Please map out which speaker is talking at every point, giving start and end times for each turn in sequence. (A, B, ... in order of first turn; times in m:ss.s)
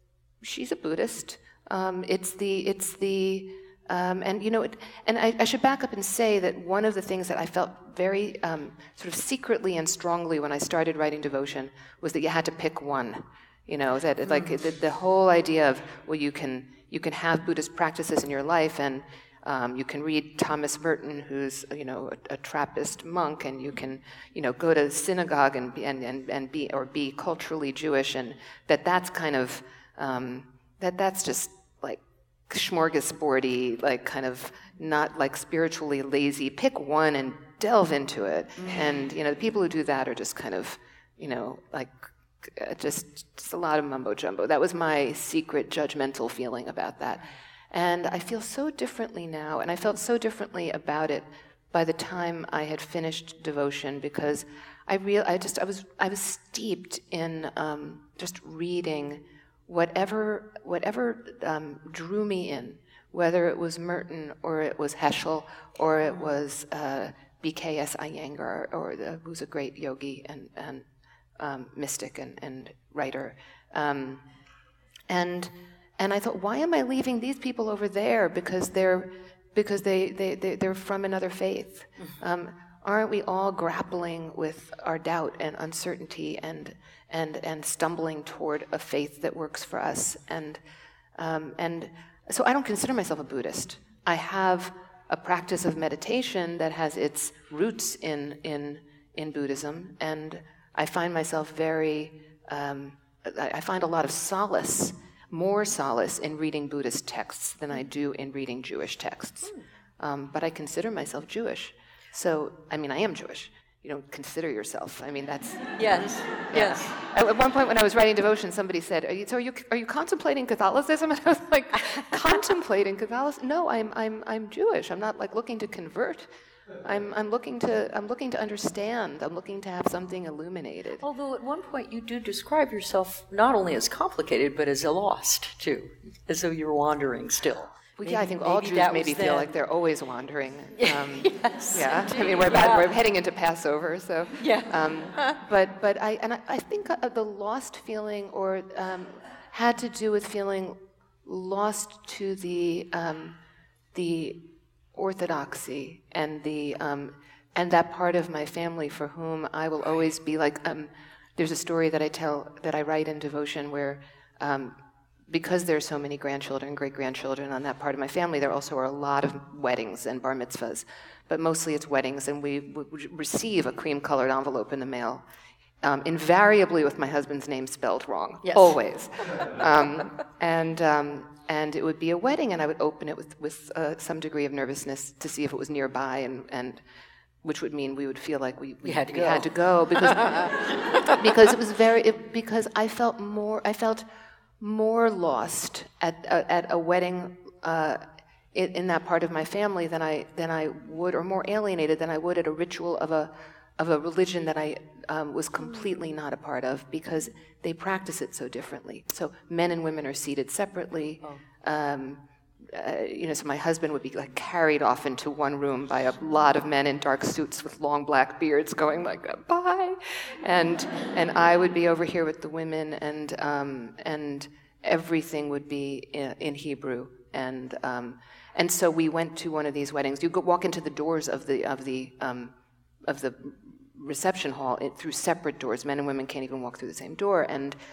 0:00.4-1:10.9 A
1:11.4-1:14.2 A
1:15.1-1:30.6 A
1:31.2-1:55.8 A
1:55.7-1:57.0 B
1:56.5-2:06.3 A
2:06.8-2:11.0 A
2:11.0-2:19.5 B
2:18.0-2:33.4 A
2:20.8-2:22.9 B
2:24.4-2:25.4 B
2:33.9-2:44.8 A
2:45.3-2:55.2 A
2:55.8-3:06.8 A
2:58.4-3:00.0 B
3:07.4-3:14.0 A
3:08.8-3:11.2 B
3:14.6-3:18.0 A
3:18.5-3:57.8 A